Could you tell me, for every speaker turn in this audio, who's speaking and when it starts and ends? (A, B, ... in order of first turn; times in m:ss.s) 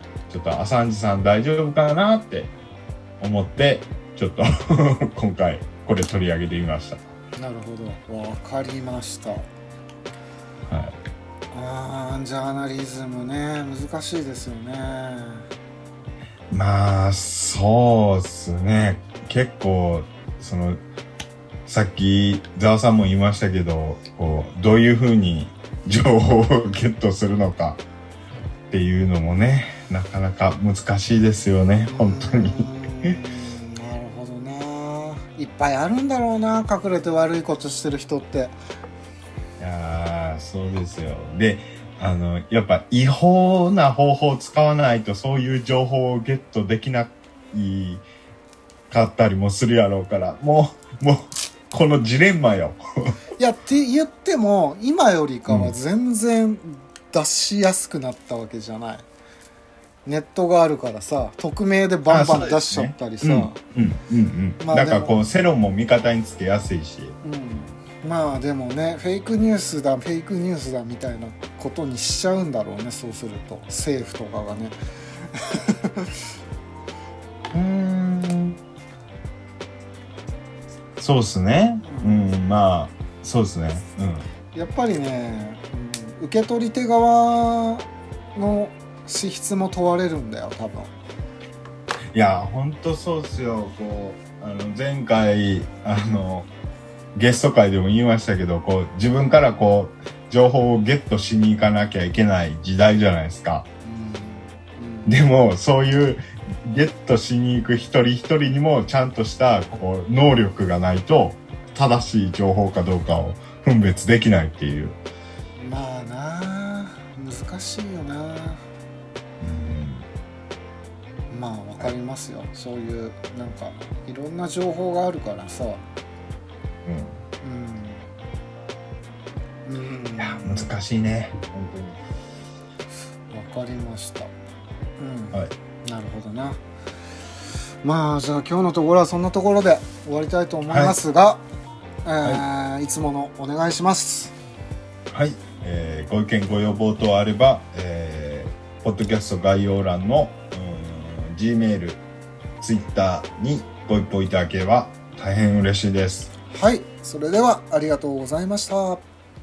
0:00.3-0:02.5 A
0:03.2-0:07.0 A
0:07.4-0:09.4 B
0:10.7-0:11.0 A
0:11.5-0:15.5 B
0:16.5-0:20.8 A
0:21.6-0:27.8 A
0:28.7-0:33.2 A
0:31.9-0:38.6 B
0:39.6-0:48.0 A
0:48.9-0:52.8 A
0:53.4-0:59.0 B
0:55.5-0:55.8 A
1:00.0-1:03.6 B
1:02.1-1:07.2 A
1:04.6-1:05.2 B
1:07.2-1:14.8 B
1:15.3-1:16.1 B
1:17.5-1:18.6 A
1:21.0-1:24.3 A
1:21.8-1:22.3 B
1:24.6-1:30.9 B
1:32.1-1:36.5 A
1:37.1-1:43.6 A
1:43.8-1:45.2 B
1:45.0-1:55.0 A
1:55.6-1:58.6 B
1:59.4-2:00.1 A
2:01.3-2:05.8 B
2:06.9-2:07.2 A
2:07.4-2:08.1 B
2:09.6-2:10.7 B
2:10.2-2:12.0 A
2:13.3-2:14.3 B
2:15.0-2:16.6 B
2:17.8-2:21.4 B
2:20.7-2:21.0 A
2:22.0-2:24.3 B
2:25.1-2:32.0 A
2:32.6-2:36.3 A
2:36.5-2:39.0 B